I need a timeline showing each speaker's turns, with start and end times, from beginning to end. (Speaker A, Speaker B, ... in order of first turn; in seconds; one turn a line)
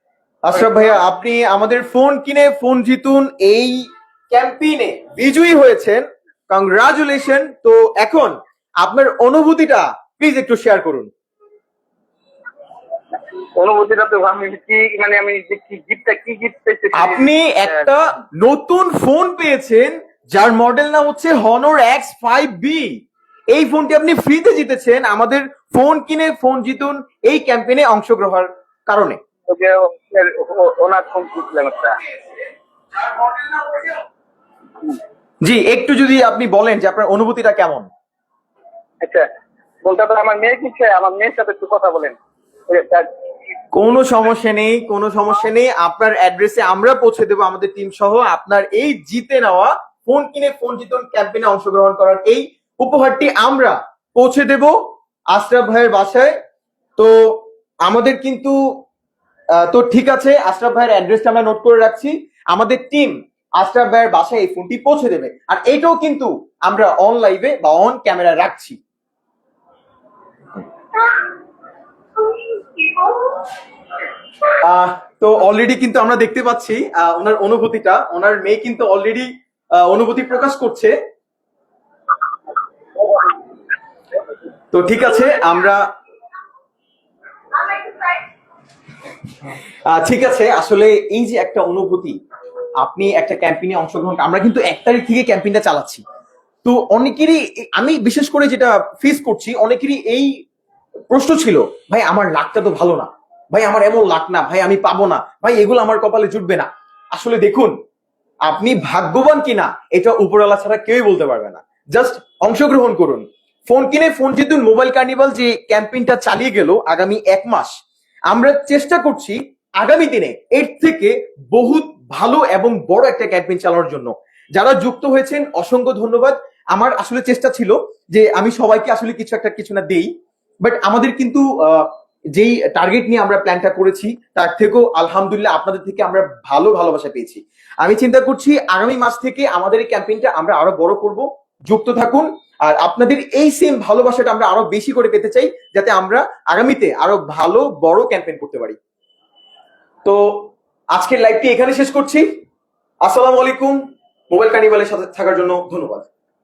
Speaker A: 0.4-11.1
Speaker B: 13.6-17.9
Speaker A: 16.9-29.2
Speaker B: 29.5-32.0
Speaker A: 35.4-37.9
Speaker B: 39.8-42.2
Speaker B: 42.7-43.1
Speaker A: 43.7-54.8
Speaker A: 55.3-56.3
Speaker A: 57.0-58.6
Speaker A: 59.5-68.8
Speaker A: 74.6-81.0
Speaker A: 84.7-85.8
Speaker A: 89.9-92.2
Speaker A: 92.8-96.0
Speaker A: 96.7-100.3
Speaker A: 101.1-107.8
Speaker A: 108.5-117.7
Speaker A: 118.3-130.1
Speaker A: 130.6-148.8
Speaker A: 150.1-152.3
Speaker A: 153.0-153.8
Speaker A: 154.3-156.1